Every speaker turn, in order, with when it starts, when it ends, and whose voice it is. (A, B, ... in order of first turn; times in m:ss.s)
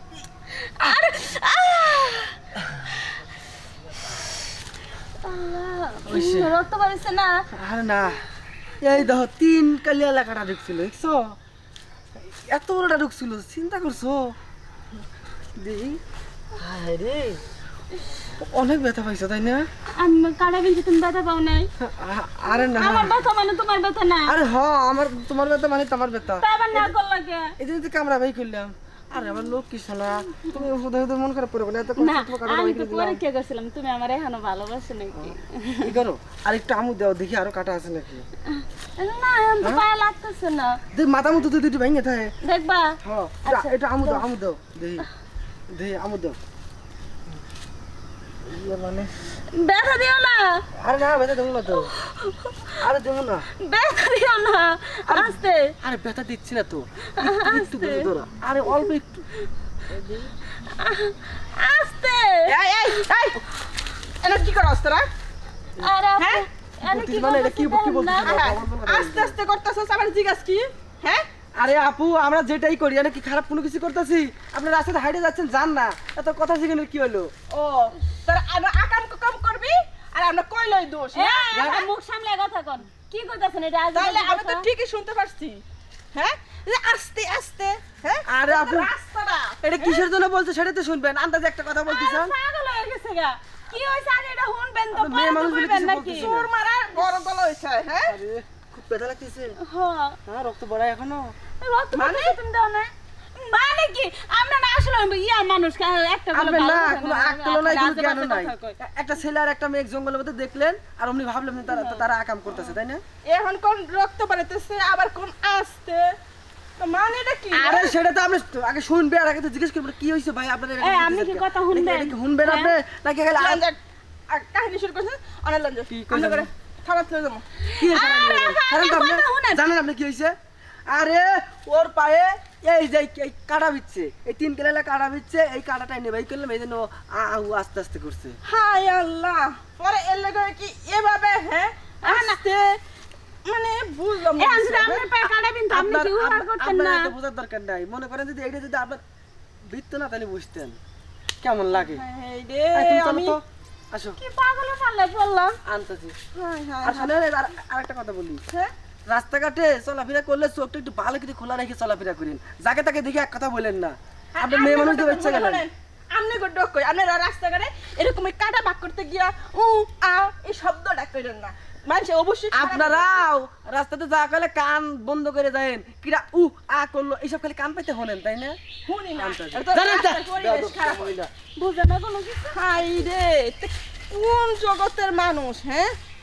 0:00.5-0:02.4 A
0:05.2-0:07.4 A
0:06.0-0:06.5 B
0:07.5-0:08.2 B
0:08.8-0:11.4 B
0:12.3-0:14.3 B
0:15.6-0:16.0 B
0:16.6-0:17.4 B
0:18.4-0:19.6 B
0:20.0-0:21.7 A
0:21.8-0:23.2 B
0:22.5-0:24.4 A
0:24.3-0:26.9 B
0:26.4-0:27.5 A
0:27.6-0:33.2 B
0:32.0-0:35.9 A
0:35.1-0:38.2 B
0:38.5-0:40.8 A
0:40.9-0:42.3 B
0:42.4-0:44.2 A
0:43.0-0:45.0 B
0:45.7-0:46.4 B
0:48.4-0:49.1 B
0:49.5-0:50.6 A
0:50.8-0:51.9 B
0:51.8-0:52.8 A
0:52.8-0:53.4 B
0:53.6-0:55.6 A
0:55.1-0:59.2 B
0:57.2-0:58.1 A
0:59.9-1:00.3 B
1:00.6-1:02.5 A
1:02.5-1:03.5 C
1:04.2-1:05.1 C
1:05.8-1:08.6 A
1:06.2-1:06.4 C
1:06.8-1:09.4 B
1:08.2-1:11.3 C
1:11.6-1:17.3 B
1:17.5-1:21.8 C
1:21.1-1:24.7 A
1:21.5-1:21.8 B
1:23.9-1:29.8 C
1:28.2-1:28.9 B
1:29.6-1:32.3 B
1:31.8-1:36.3 A
1:34.9-1:36.5 B
1:35.3-1:38.1 C
1:38.0-1:39.5 B
1:39.6-1:40.2 A
1:40.2-1:41.3 B
1:41.6-1:48.7 A
1:41.9-1:42.4 C
1:46.3-1:53.0 B
1:51.7-1:52.0 A
1:53.2-1:56.2 C
1:56.8-1:57.9 C
1:57.5-2:03.6 B
2:00.8-2:02.7 A
2:03.4-2:07.4 C
2:05.9-2:06.5 B
2:07.7-2:09.6 A
2:07.8-2:10.3 B
2:10.9-2:18.4 B
2:18.4-2:22.8 C
2:22.0-2:22.4 A
2:23.4-2:25.1 C
2:24.4-2:27.1 A
2:25.7-2:29.0 B
2:29.7-2:30.8 B
2:31.4-2:32.0 B
2:31.7-2:33.4 C
2:32.7-2:34.2 B
2:34.2-2:35.6 A
2:35.6-2:36.1 B
2:36.3-2:37.1 C
2:36.8-2:38.4 B
2:39.1-2:45.7 B
2:44.3-2:53.2 C
2:52.5-2:58.6 B
2:58.8-3:01.1 C
2:59.1-3:01.3 B
3:01.6-3:03.0 A
3:02.5-3:05.9 C